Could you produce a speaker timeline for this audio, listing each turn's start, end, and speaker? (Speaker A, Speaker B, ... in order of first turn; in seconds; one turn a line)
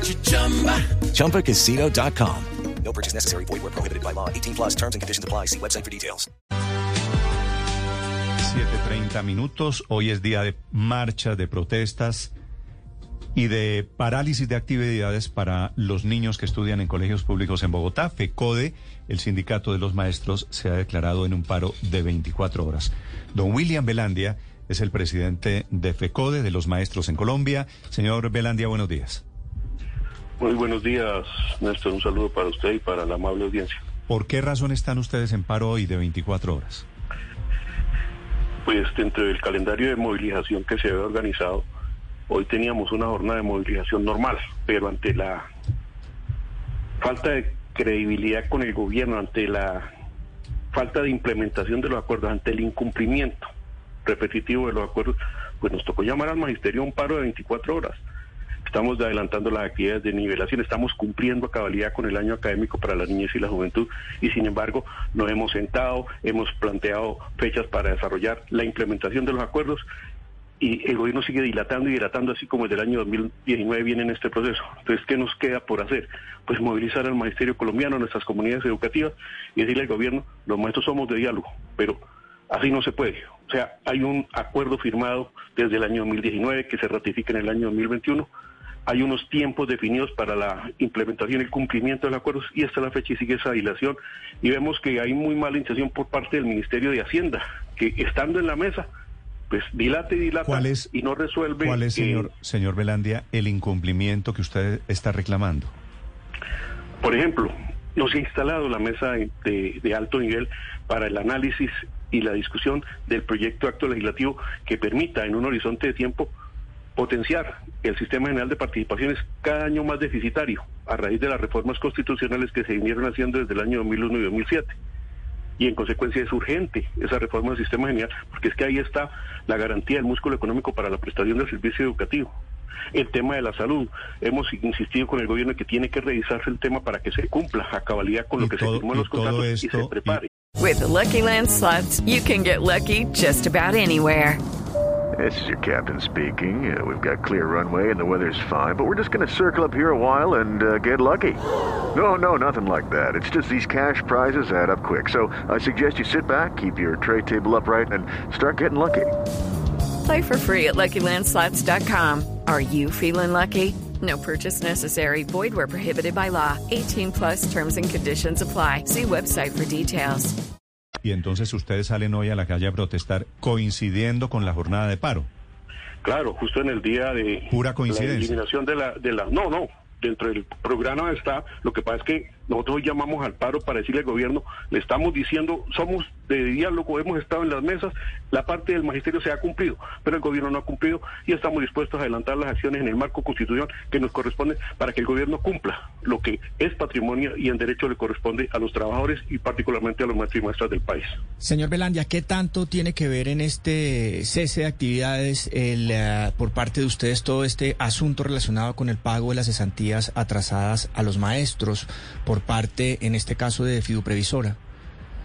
Speaker A: 0.9-6.3
Speaker B: 8.4-12.3
Speaker B: 13.4-29.2
Speaker C: 30.4-33.8
Speaker B: 34.1-36.9
Speaker C: 38.6-41.7
Speaker C: 42.3-45.5
Speaker C: 47.0-49.9
Speaker C: 50.7-53.5
Speaker C: 54.0-58.0
Speaker C: 58.6-69.8
Speaker C: 70.6-88.3
Speaker C: 88.9-98.9
Speaker C: 99.5-102.3
Speaker B: 100.5-100.9
Speaker B: 101.6-105.7
Speaker C: 107.0-116.3
Speaker C: 117.0-124.8
Speaker C: 125.6-132.3
Speaker C: 132.9-140.3
Speaker B: 138.4-140.2
Speaker D: 140.6-144.4
Speaker E: 145.2-151.4
Speaker E: 151.9-159.1
Speaker D: 160.1-170.4
Speaker B: 171.0-175.3
Speaker C: 176.0-201.2
Speaker B: 177.5-178.4
Speaker F: 201.4-214.6